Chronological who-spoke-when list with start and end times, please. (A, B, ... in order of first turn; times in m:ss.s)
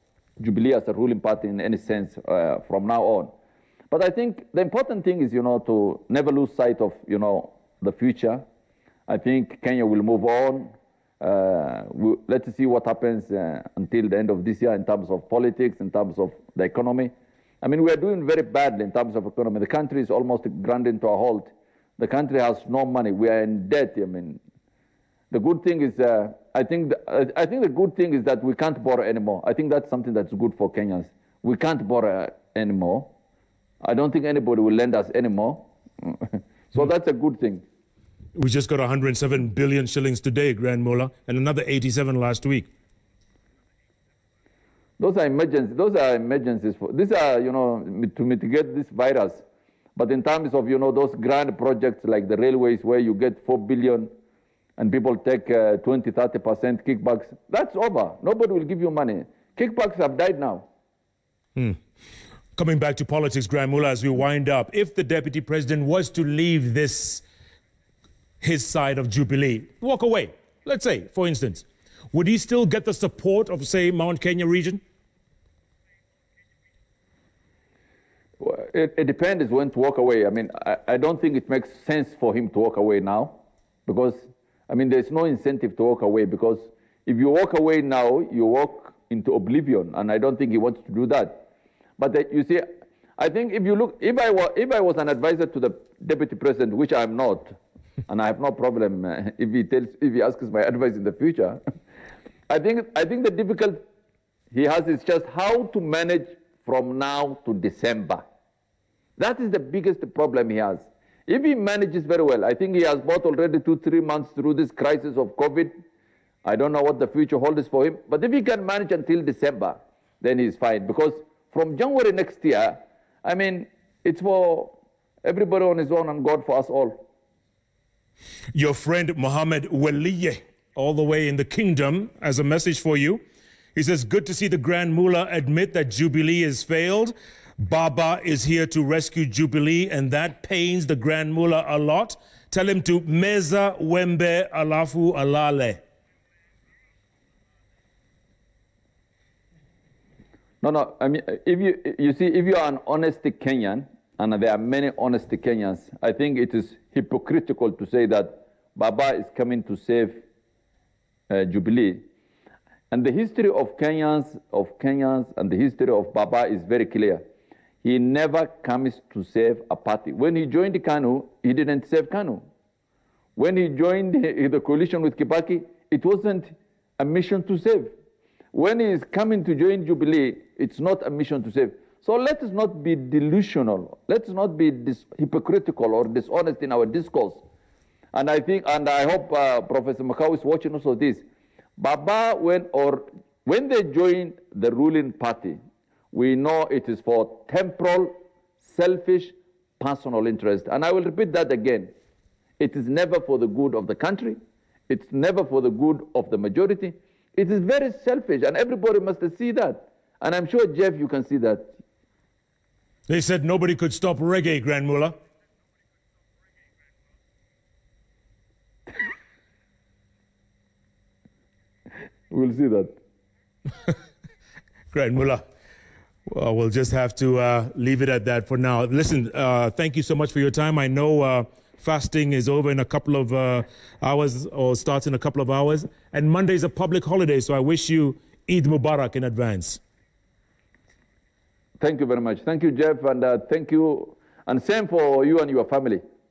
0:00.4-0:03.3 A
0:03.9-0:08.4 A
0:09.1-0:24.4 A
0:25.3-0:33.1 A
0:33.8-0:37.6 A
0:38.4-0:42.7 B
0:45.0-0:49.4 A
0:50.0-0:54.1 A
0:54.8-1:00.7 A
1:01.6-1:01.8 B
1:02.6-1:07.2 B
1:08.4-1:14.8 B
1:18.4-1:31.5 A
1:32.0-1:32.7 A
1:33.2-1:37.6 A
1:38.1-1:41.6 A
1:42.5-1:43.8 A
1:44.5-1:48.2 A
1:49.2-1:55.8 A
1:56.4-2:07.0 A
2:08.5-2:13.2 B
2:13.8-2:25.8 B
2:30.6-2:40.2 A
2:41.3-2:42.0 A
2:42.9-2:47.2 A
2:47.8-2:52.4 A
2:53.4-2:57.9 A
2:58.5-3:07.4 A
3:08.1-3:11.2 A
3:11.8-3:15.6 A
3:16.1-3:21.9 A
3:22.6-3:24.4 A
3:24.9-3:31.8 A
3:33.1-3:35.2 B
3:42.3-3:43.0 A
3:44.9-3:45.4 B
3:46.3-3:59.8 B
4:01.8-4:06.0 A